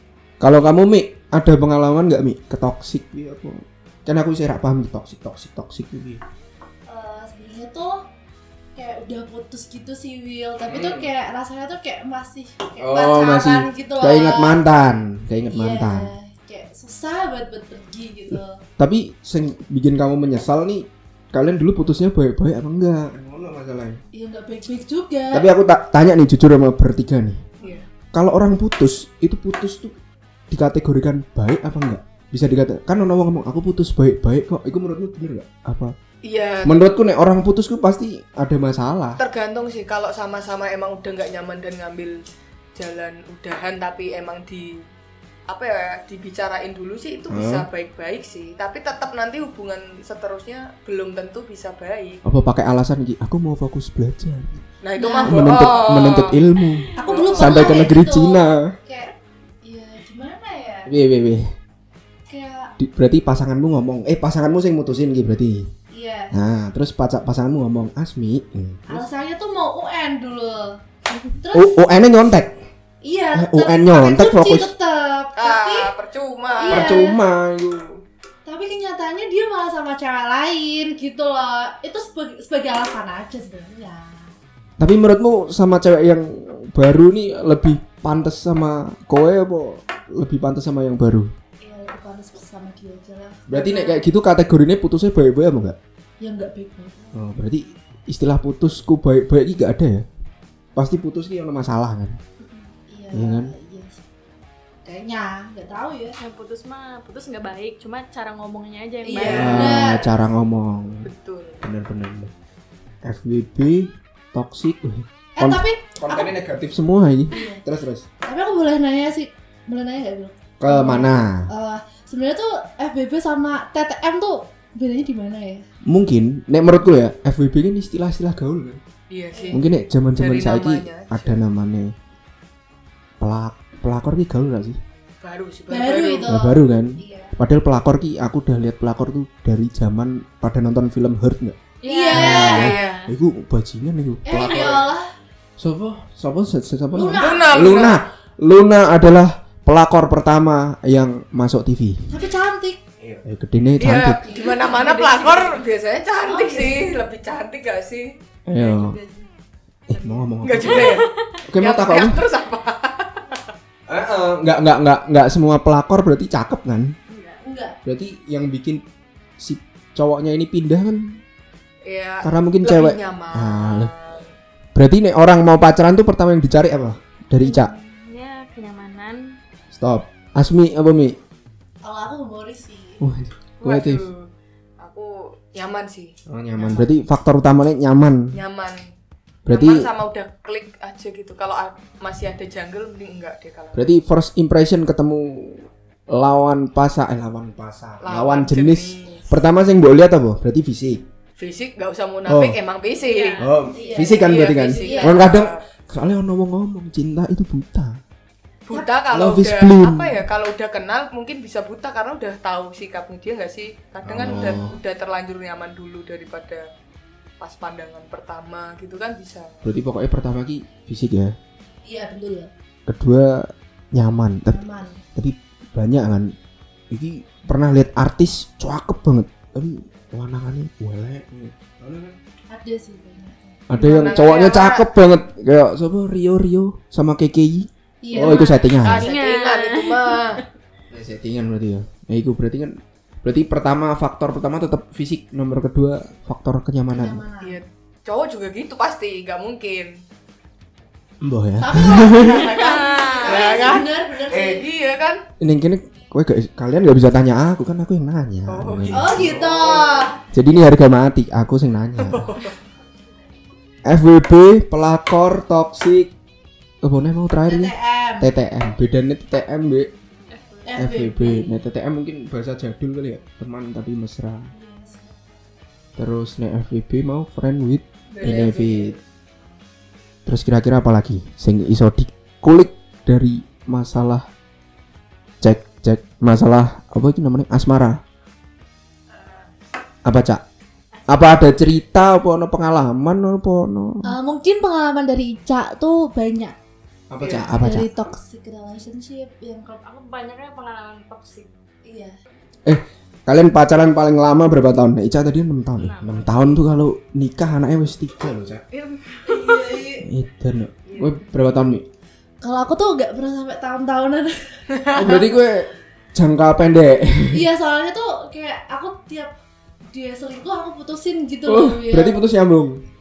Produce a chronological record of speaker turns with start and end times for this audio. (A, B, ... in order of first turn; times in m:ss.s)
0:00.4-0:06.2 A
0:06.9-0:08.0 B
0:08.7-0:14.6 B
0:10.7-0:11.1 A
0:12.8-0:16.1 A
0:15.5-0:18.6 B
0:18.3-0:24.0 A
0:24.1-0:25.5 B
0:25.3-0:27.4 A
0:28.1-0:30.0 A
0:30.5-0:35.9 A
0:36.2-0:36.8 C
0:36.6-0:39.2 A
0:39.2-0:42.2 C
0:42.8-0:44.8 C
0:45.5-0:52.2 C
0:47.3-0:47.7 A
0:52.2-0:54.6 A
0:54.8-0:56.4 C
0:55.0-0:55.5 B
0:55.2-0:58.7 A
0:57.0-1:00.9 B
0:57.0-0:57.9 C
1:00.9-1:01.5 A
1:02.3-1:02.7 B
1:02.8-1:05.7 A
1:05.9-1:06.4 B
1:06.3-1:09.0 A
1:08.9-1:10.8 B
1:11.4-1:11.8 B
1:11.5-1:12.6 A
1:13.0-1:15.9 B
1:13.3-1:14.7 A
1:15.4-1:17.0 C
1:16.6-1:17.2 B
1:16.7-1:18.0 A
1:18.4-1:24.4 B
1:24.8-1:31.3 A
1:31.6-1:34.1 B
1:33.5-1:35.8 A
1:36.2-1:37.2 B
1:37.1-1:40.0 A
1:40.8-1:42.2 A
1:42.8-1:44.0 B
1:43.1-1:43.5 A
1:44.8-1:46.2 B
1:46.2-1:49.7 D
1:49.0-1:50.1 B
1:49.2-1:49.6 C
1:49.3-1:51.1 A
1:51.0-1:51.6 C
1:51.6-1:52.3 A
1:53.0-1:58.1 A
1:55.4-1:56.3 B
1:57.3-1:57.6 B
1:58.2-2:05.6 B
2:00.6-2:01.5 A
2:05.9-2:08.8 A
2:09.1-2:09.6 C
2:09.3-2:09.6 B
2:09.5-2:11.9 A
2:10.2-2:11.4 C
2:13.2-2:14.8 A
2:15.2-2:16.3 C
2:15.7-2:17.4 B
2:16.3-2:21.6 A
2:21.8-2:23.1 D
2:21.9-2:22.7 B
2:22.1-2:24.9 A
2:22.5-2:23.0 C
2:24.2-2:25.1 B
2:25.6-2:32.2 A
2:26.9-2:27.9 B
2:27.2-2:28.0 C
2:32.1-2:32.8 B
2:33.0-2:34.4 A
2:33.8-2:38.1 C
2:34.2-2:35.6 B
2:36.2-2:36.9 B
2:38.5-2:39.0 A
2:38.5-2:39.3 D
2:39.9-2:42.2 A
2:39.9-2:41.4 D
2:40.4-2:43.4 C
2:43.9-2:47.0 A
2:47.1-2:47.4 D
2:47.4-2:47.8 B
2:47.8-2:48.8 A
2:49.4-2:51.2 A
2:51.8-2:54.2 C
2:52.2-2:53.9 A
2:54.7-2:57.7 A
2:57.4-2:59.4 D
2:59.7-3:01.2 A
3:01.8-3:03.0 B
3:03.0-3:04.1 A
3:03.6-3:04.3 C
3:04.8-3:06.8 C
3:06.3-3:08.3 A
3:08.3-3:08.9 C
3:09.4-3:09.9 A
3:09.5-3:13.9 C
3:13.7-3:21.0 A
3:18.0-3:19.3 C
3:21.4-3:25.6 C
3:22.3-3:22.6 A
3:23.0-3:23.5 D
3:23.4-3:28.0 A
3:23.7-3:25.3 B
3:28.7-3:36.7 C
3:29.1-3:30.2 A
3:34.0-3:34.8 A
3:37.4-3:39.6 C
3:39.6-3:41.4 A
3:41.8-3:42.5 B
3:42.9-3:46.3 A
3:44.5-3:45.0 B
3:46.9-3:52.2 A
3:52.5-3:53.6 B
3:53.7-3:59.1 A
3:53.8-3:54.8 C
3:58.0-3:58.6 B
3:58.2-4:00.4 D
3:58.8-4:00.4 C
4:00.9-4:07.2 A
4:06.9-4:07.6 B
4:07.4-4:10.0 C
4:11.2-4:12.5 A
4:11.6-4:14.6 B
4:12.1-4:15.2 C
4:12.4-4:13.7 D
4:15.4-4:22.4 A
4:18.5-4:20.1 C
4:18.9-4:20.2 B
4:22.0-4:22.5 C
4:23.9-4:26.1 A
4:26.8-4:29.9 A
4:27.5-4:28.3 B
4:30.3-4:30.7 D
4:30.6-4:31.5 B
4:30.8-4:34.5 A
4:34.5-4:35.1 B
4:36.0-4:39.0 A
4:38.1-4:39.0 C
4:40.2-4:44.3 A
4:45.4-4:48.0 A
4:50.0-4:50.4 A
4:50.9-4:51.5 D
4:51.1-4:54.1 A
4:54.0-4:56.6 B
4:57.1-4:57.9 A
4:57.3-4:59.8 B
4:59.7-5:01.5 D
5:01.8-5:02.2 B
5:02.6-5:08.6 A
5:05.8-5:06.3 D
5:08.7-5:09.8 D
5:09.2-5:10.1 B
5:10.0-5:11.8 A
5:10.9-5:11.2 D
5:12.4-5:14.6 B
5:14.7-5:15.3 C
5:14.9-5:17.5 A
5:17.3-5:19.4 B
5:19.9-5:22.2 B
5:21.4-5:22.8 A